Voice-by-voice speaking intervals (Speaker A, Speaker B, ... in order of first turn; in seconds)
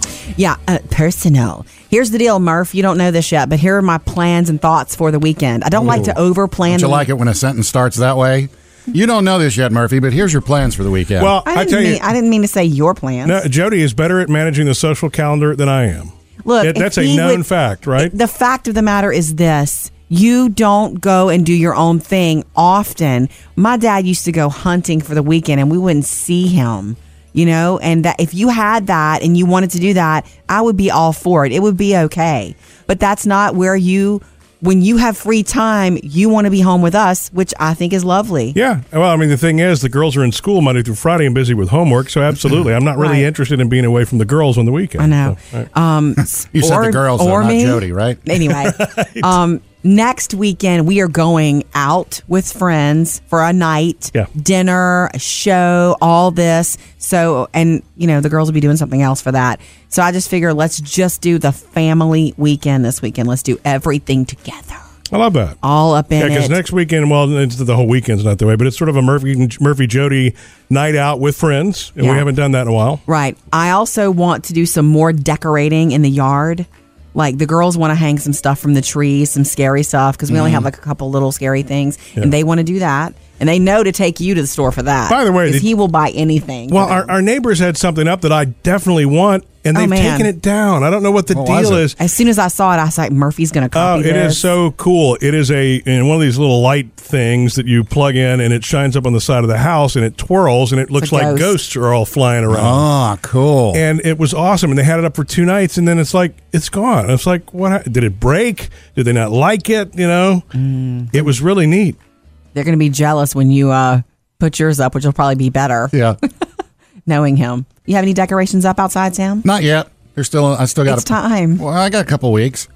Speaker A: 0.3-7.1, 11.4-13.4, 16.4-17.4, 18.0-38.5, 43.0-43.3, 45.0-64.8, 65.6-66.6, 72.0-72.2, 73.1-87.1, 89.7-90.3, 92.0-94.4, 101.0-101.5, 110.5-111.2, 112.5-115.9, 117.1-119.4, 120.8-121.6
Speaker B: 5.8-6.2, 6.7-11.3, 46.5-48.2, 91.3-91.8, 102.5-103.8, 115.9-116.2, 119.4-122.7
Speaker C: 11.2-12.0, 13.2-18.1, 38.5-45.6, 48.4-49.3, 65.1-65.6, 66.2-73.0, 85.1-85.7, 86.7-92.0, 93.7-102.8, 103.7-110.5, 111.1-112.0